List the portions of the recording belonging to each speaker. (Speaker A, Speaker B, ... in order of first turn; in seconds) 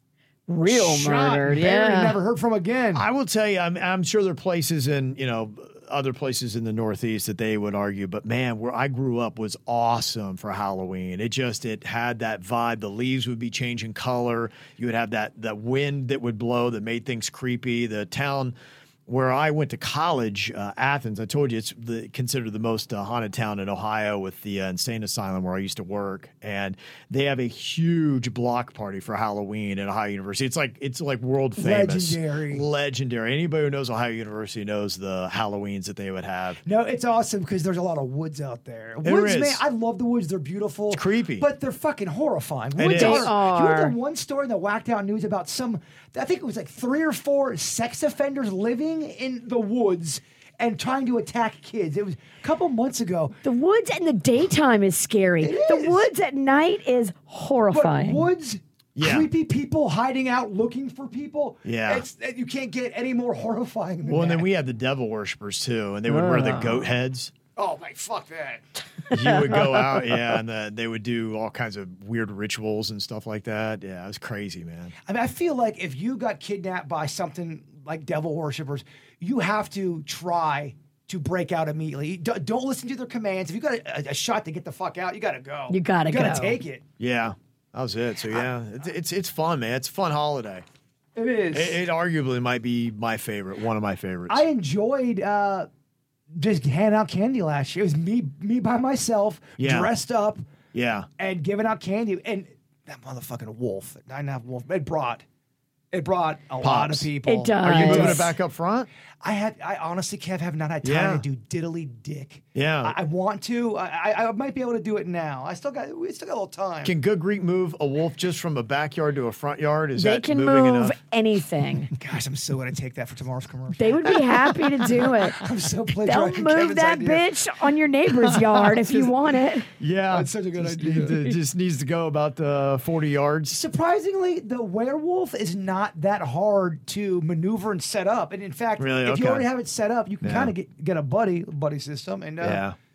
Speaker A: 0.5-2.2, 42.9-44.0, 53.4-58.3, 66.1-66.9, 69.1-70.2, 85.7-86.6, 107.2-108.3, 120.0-121.9, 123.7-125.5, 126.0-129.7
Speaker B: 0.7-3.0, 31.6-32.7, 36.6-53.4, 55.4-56.1, 57.7-64.5, 67.6-68.6, 75.1-86.9, 91.2-91.8, 94.3-95.7, 96.3-100.4, 101.2-105.2, 105.9-108.3, 109.2-116.9, 121.9-127.3, 130.1-131.2, 133.5-142.6
Speaker C: 2.9-18.6, 19.1-36.6, 39.0-39.6, 40.9-41.5, 42.8-43.3, 59.0-59.3, 61.6-62.1, 64.1-67.3, 69.1-74.9, 87.0-90.7, 91.5-94.5, 99.6-99.9, 100.7-101.1, 106.6-107.1, 107.6-108.9, 110.8-111.2, 112.5-113.0, 116.8-121.0, 128.3-128.8, 129.8-133.6, 138.8-139.5, 140.2-140.5, 142.4-142.8